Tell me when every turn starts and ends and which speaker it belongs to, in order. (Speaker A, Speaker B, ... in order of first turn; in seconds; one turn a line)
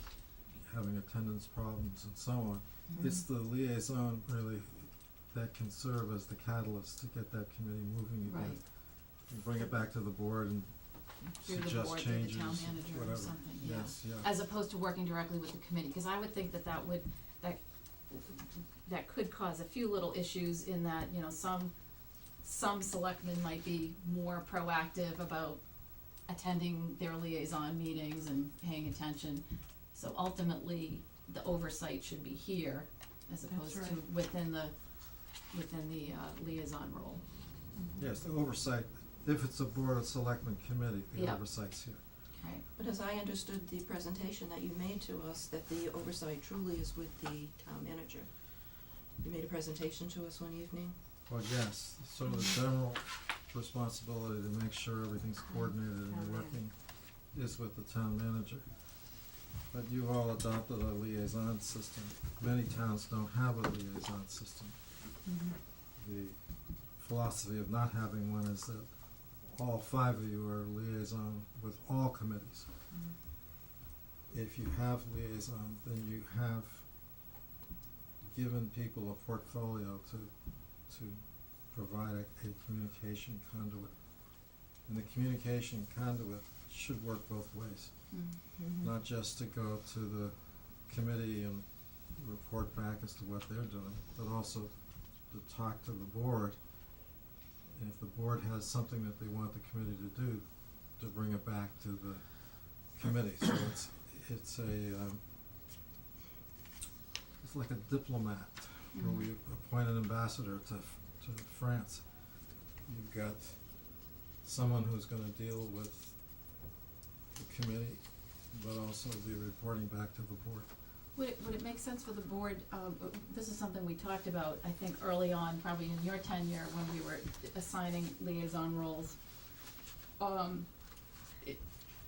Speaker A: 0.4-8.7
Speaker B: 2.9-3.2
Speaker B: 8.3-8.6
Speaker A: 9.3-14.3
Speaker B: 11.4-21.7
Speaker B: 22.4-25.6
Speaker B: 26.3-34.8
Speaker C: 33.5-34.0
Speaker B: 35.5-37.2
Speaker A: 38.0-42.0
Speaker B: 41.1-41.4
Speaker B: 42.4-42.6
Speaker C: 42.8-48.4
Speaker C: 49.2-51.0
Speaker A: 51.3-58.7
Speaker C: 56.1-56.6
Speaker A: 59.7-64.8
Speaker B: 65.2-65.6
Speaker A: 66.0-66.4
Speaker A: 67.0-72.7
Speaker A: 74.3-76.9
Speaker A: 78.2-88.1
Speaker B: 88.1-88.4
Speaker C: 88.5-88.9
Speaker A: 88.8-94.7
Speaker A: 95.3-96.6
Speaker A: 97.7-105.2
Speaker A: 107.4-112.0
Speaker B: 108.9-109.3
Speaker A: 112.9-113.6
Speaker A: 114.4-116.2
Speaker A: 117.3-120.7
Speaker B: 121.2-129.2
Speaker B: 130.2-130.7